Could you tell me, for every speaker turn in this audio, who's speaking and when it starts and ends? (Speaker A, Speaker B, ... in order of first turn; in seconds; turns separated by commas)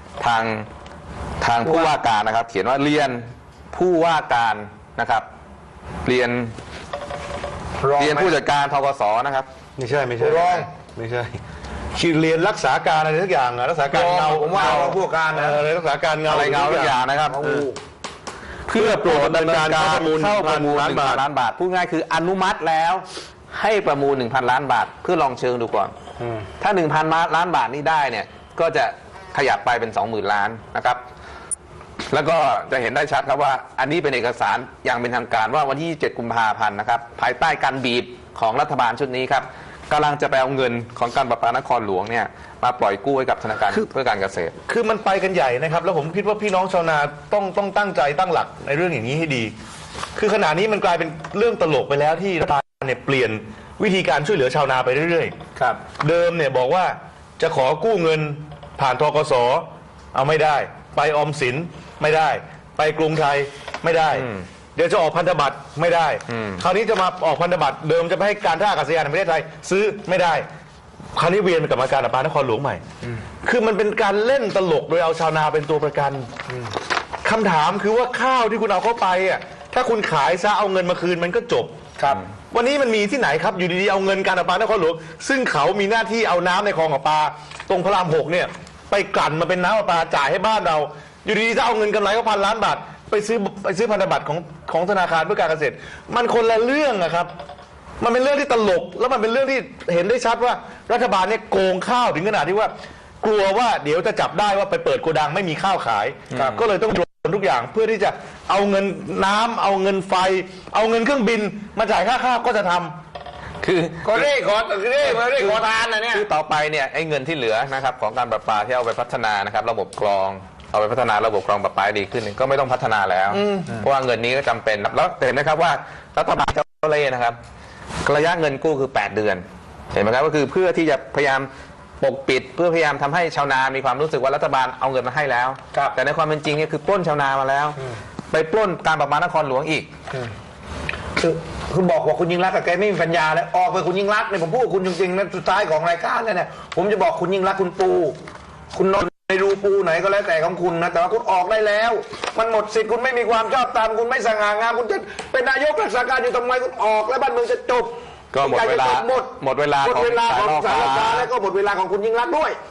Speaker A: 0.2-0.7, Speaker A: 1.4-5.2, Speaker B: 1.6-1.9, Speaker A: 6.0-6.5, Speaker B: 7.8-8.4, Speaker A: 8.0-9.5, Speaker C: 9.8-11.4, Speaker B: 10.2-10.7, Speaker C: 11.9-17.6, Speaker B: 13.9-15.6, Speaker A: 14.5-15.0, Speaker A: 16.3-17.5, Speaker B: 17.3-17.8, Speaker A: 18.7-25.9, Speaker C: 18.7-21.2, Speaker B: 26.2-26.5, Speaker A: 26.6-31.0, Speaker A: 32.1-44.5, Speaker C: 44.7-49.5, Speaker C: 50.1-55.3, Speaker B: 55.6-55.8, Speaker C: 56.0-70.4, Speaker A: 64.1-64.4, Speaker A: 66.3-66.6, Speaker C: 71.2-72.8, Speaker C: 73.4-76.3, Speaker C: 77.2-81.7, Speaker C: 82.5-97.3, Speaker C: 98.0-112.9, Speaker A: 106.3-106.6, Speaker B: 106.3-106.6, Speaker A: 113.6-114.3, Speaker B: 114.0-116.2, Speaker A: 115.0-127.4, Speaker B: 123.3-123.8, Speaker A: 128.0-131.5, Speaker A: 132.0-137.8, Speaker A: 138.3-139.9, Speaker B: 141.2-148.2, Speaker B: 148.7-162.6, Speaker A: 158.3-161.3